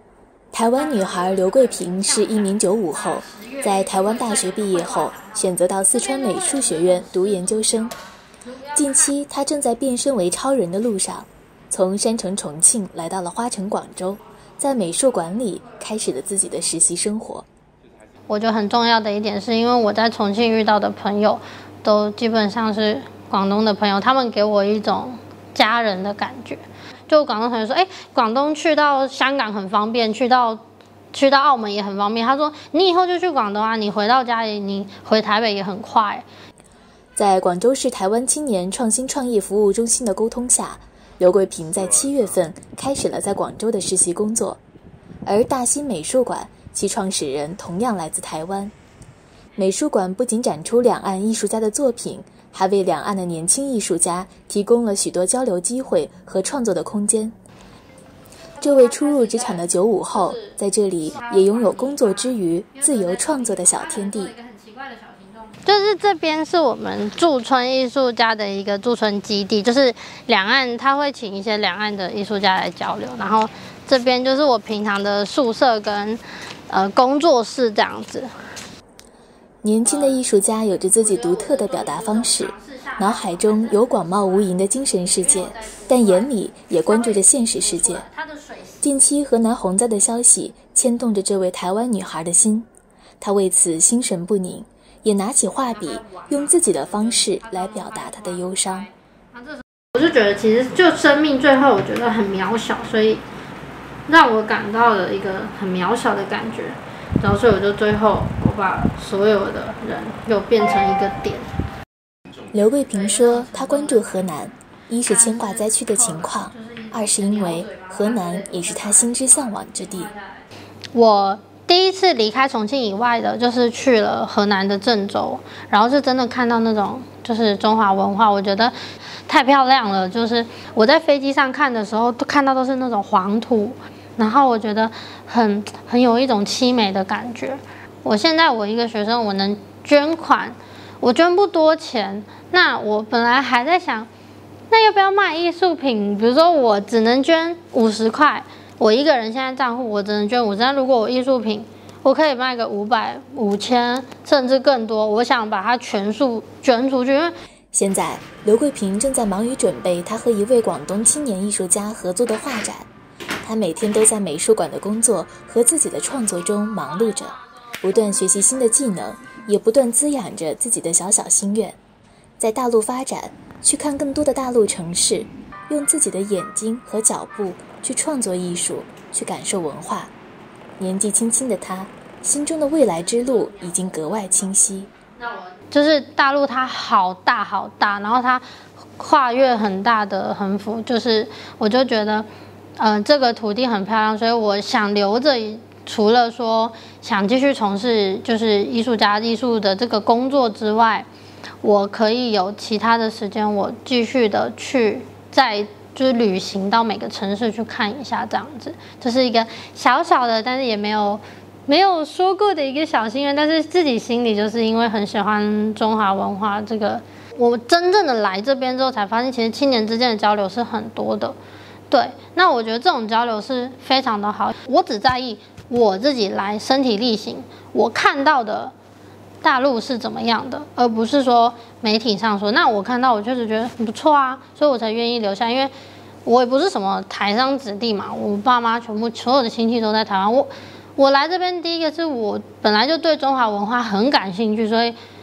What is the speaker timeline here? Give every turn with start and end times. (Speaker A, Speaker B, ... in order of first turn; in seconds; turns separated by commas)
Speaker A: 0.5-7.9, Speaker B: 0.8-9.1, Speaker A: 8.8-17.5, Speaker B: 18.3-30.6, Speaker B: 31.1-36.2, Speaker A: 37.2-44.6, Speaker A: 45.3-48.7, Speaker A: 49.6-57.4, Speaker A: 58.6-64.3, Speaker B: 58.6-78.3, Speaker A: 79.6-88.0, Speaker B: 79.8-80.2, Speaker B: 81.0-88.9, Speaker A: 88.8-92.7, Speaker A: 93.2-98.9, Speaker B: 95.7-103.2, Speaker B: 104.1-111.5, Speaker A: 112.5-120.1, Speaker B: 112.9-114.2, Speaker B: 115.0-120.4, Speaker B: 120.9-128.7, Speaker B: 129.3-144.1, Speaker B: 144.7-157.3, Speaker A: 157.7-162.9, Speaker A: 163.4-171.8, Speaker A: 172.4-180.1, Speaker A: 180.8-184.9, Speaker B: 183.5-184.1, Speaker B: 185.2-188.4, Speaker B: 189.0-192.3, Speaker B: 192.8-201.1, Speaker B: 201.6-221.4, Speaker B: 221.9-228.7, Speaker B: 229.4-235.7, Speaker B: 236.2-245.0